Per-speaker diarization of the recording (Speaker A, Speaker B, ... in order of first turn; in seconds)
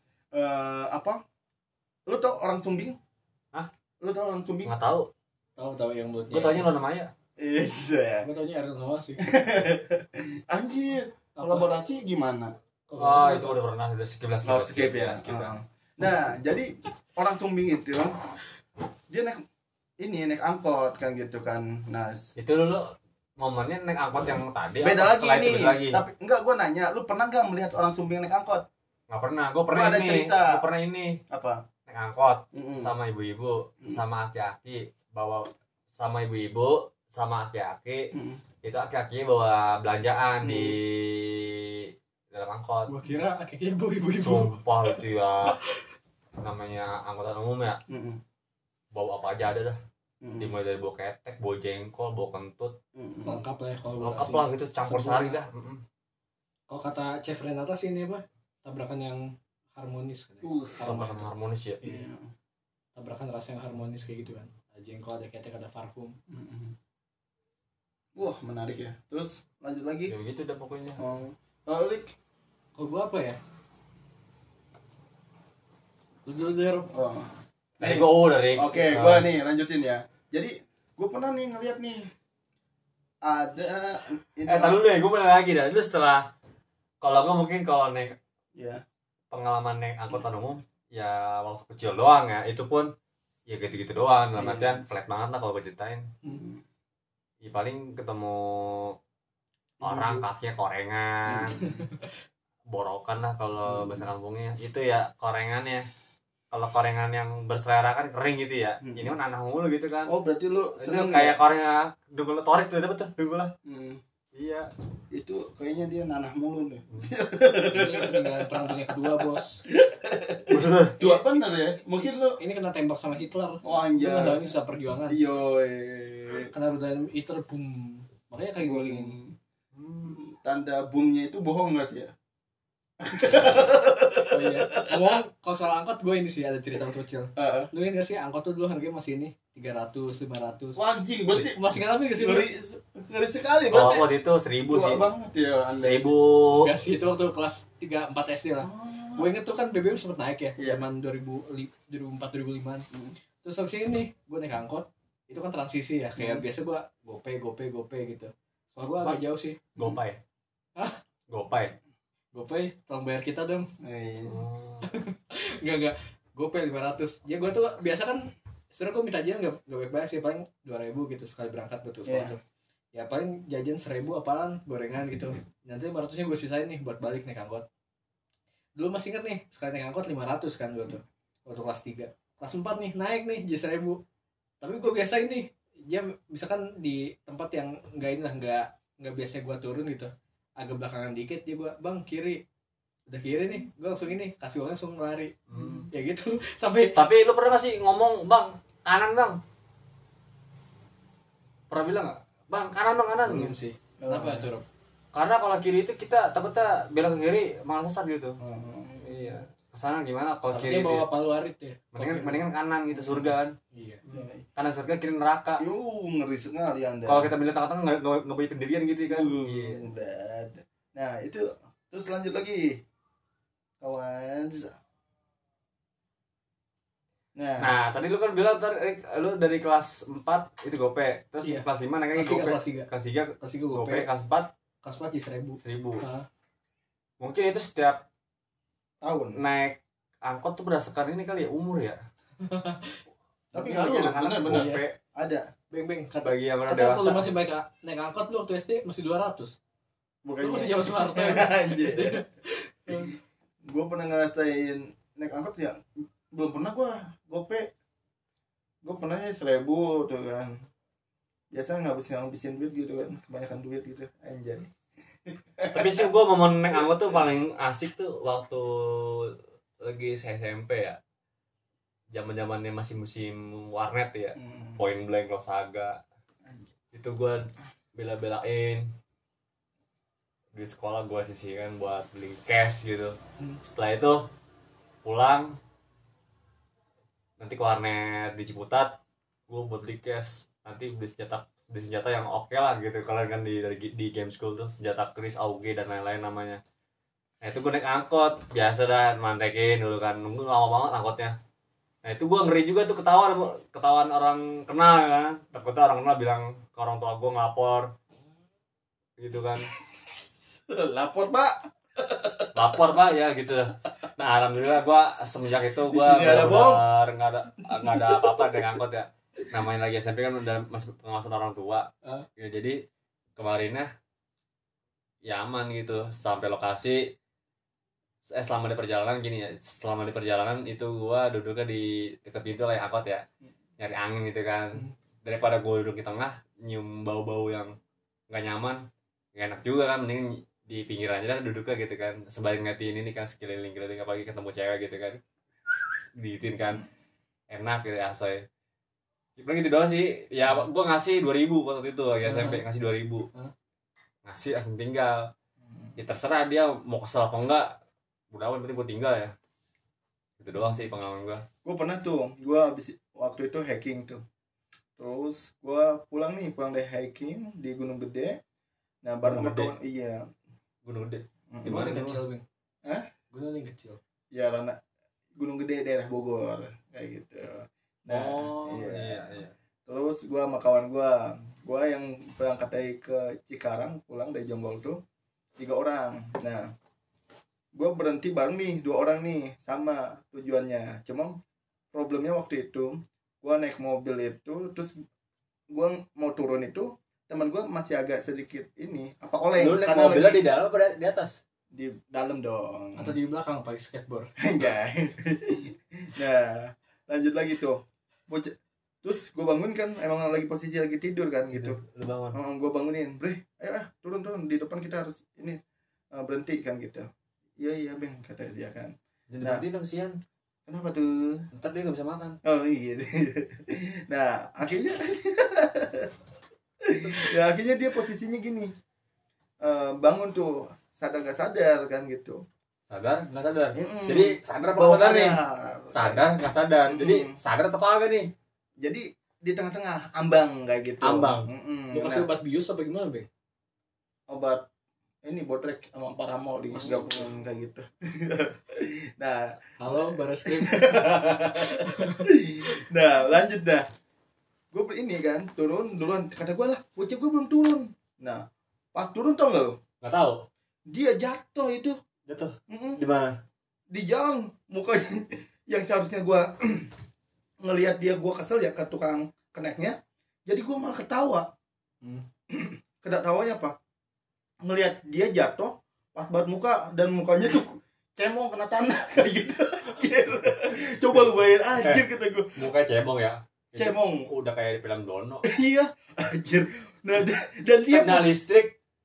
Speaker A: 0.3-1.2, 2.1-3.0, 4.0-4.7, 7.4-8.2, 9.2-12.5, 14.4-18.1, 19.1-19.4, 20.0-22.3, 24.8-28.6, 29.7-30.6, 31.3-31.6, 32.5-32.9, 38.1-38.4, 40.4-40.8, 47.9-48.2, 50.2-50.5, 52.9-53.4, 60.4-61.0, 61.8-62.3, 66.3-66.8, 68.2-70.1, 71.0-72.1, 76.9-82.1, 83.2-84.8, 88.5-88.8, 94.4-94.8, 96.2-96.6, 99.8-100.3, 101.3-101.8, 103.7-104.1, 108.8-109.1, 110.1-111.4, 113.6-114.0, 115.1-122.4, 123.6-124.5, 125.1-126.5, 128.6-129.3, 130.0-132.1, 133.0-135.2, 137.3-137.7, 140.8-144.1, 144.7-146.2, 148.6-149.3, 150.6-150.8, 156.2-156.4, 163.8-164.4, 172.1-172.3, 204.0-204.5, 208.4-209.4, 212.9-213.3, 214.1-214.4, 215.6-217.3, 219.1-222.8, 223.8-224.7, 227.3-227.7, 239.0-239.4, 243.5-245.5, 250.2-252.2, 252.9-257.7, 258.8-260.6, 261.5-264.7, 265.2-266.1, 266.7-267.2, 274.4-274.8, 310.5-312.7, 315.9-316.8, 317.8-318.6, 361.6-364.2, 365.0-368.4, 369.0-370.2, 371.5-372.0, 374.3-374.8, 375.3-385.0, 385.6-386.7, 387.7-391.4, 391.9-395.0, 395.7-400.4, 401.7-403.1, 404.4-411.8, 412.3-415.6, 416.1-419.6, 420.7-421.4, 422.4-426.1, 426.8-428.7, 429.6-432.4, 433.7-436.3, 436.9-437.3, 438.8-442.3, 444.3-444.6, 445.2-453.9, 454.7-459.8, 460.9-462.0, 462.7-463.0, 463.9-466.9, 467.6-471.5, 472.5-473.8, 474.6-482.6, 483.7-484.3, 485.4-488.3
Speaker B: 4.6-5.1, 6.3-7.1, 13.0-15.5, 22.4-26.0, 29.1-31.2, 31.9-38.1, 38.6-42.9, 44.1-45.6, 46.4-47.8, 48.9-49.8, 50.4-52.8, 54.0-55.8, 60.8-61.8, 70.1-71.0, 77.8-79.3, 84.5-86.3, 87.0-88.2, 89.3-92.9, 93.5-96.1, 97.4-99.0, 99.8-101.6, 102.7-105.9, 106.5-110.2, 110.8-113.5, 114.3-114.7, 120.5-121.0, 129.8-130.2, 143.7-145.1, 145.8-146.7, 159.8-160.2, 161.3-161.8, 164.2-164.9, 195.5-195.9, 196.9-199.4, 201.7-203.6, 205.1-208.4, 209.0-211.1, 211.9-213.5, 214.1-215.6, 217.1-219.8, 227.6-234.5, 235.6-236.0, 237.2-238.1, 239.3-242.0, 243.5-245.0, 246.2-247.3, 265.7-271.0, 272.1-276.0, 276.9-278.9, 280.5-284.3, 285.0-285.6, 287.4-296.6, 297.4-301.4, 302.0-307.9, 309.2-309.7, 312.5-322.8, 323.4-323.9, 325.2-327.1, 328.3-333.2, 333.8-337.8, 338.3-346.8, 347.5-348.4, 349.4-353.3, 354.2-355.3, 356.0-357.7, 358.3-359.3, 360.4-361.4, 369.2-369.7, 370.8-372.2, 378.1-379.5, 399.6-401.4, 411.5-412.4, 419.3-420.2, 421.5-422.4, 432.9-435.4, 435.9-438.3, 441.0-441.5, 460.0-460.5, 462.3-463.4, 481.7-482.0, 482.6-485.4, 487.9-488.7
Speaker C: 5.6-6.7, 8.2-9.3, 11.3-11.7, 12.9-13.6, 42.9-44.5, 45.5-45.8, 53.2-55.4, 56.7-61.3, 63.0-66.2, 72.8-73.4, 76.2-76.9, 117.7-119.6, 121.0-121.4, 122.4-125.2, 126.5-129.1, 134.3-140.8, 141.5-142.4, 146.6-152.9, 153.4-159.6, 162.3-163.7, 164.8-172.4, 172.9-177.7, 178.8-184.0, 184.6-192.4, 193.1-195.3, 195.9-197.0, 203.2-204.6, 210.5-212.4, 213.7-214.0, 231.4-232.9, 233.4-234.1, 234.8-236.2, 242.4-243.0, 244.5-244.8, 245.7-249.6, 250.4-253.1, 352.2-352.6, 371.6-372.4, 373.3-374.0, 402.9-404.3, 441.9-443.3, 446.8-447.0, 449.8-452.3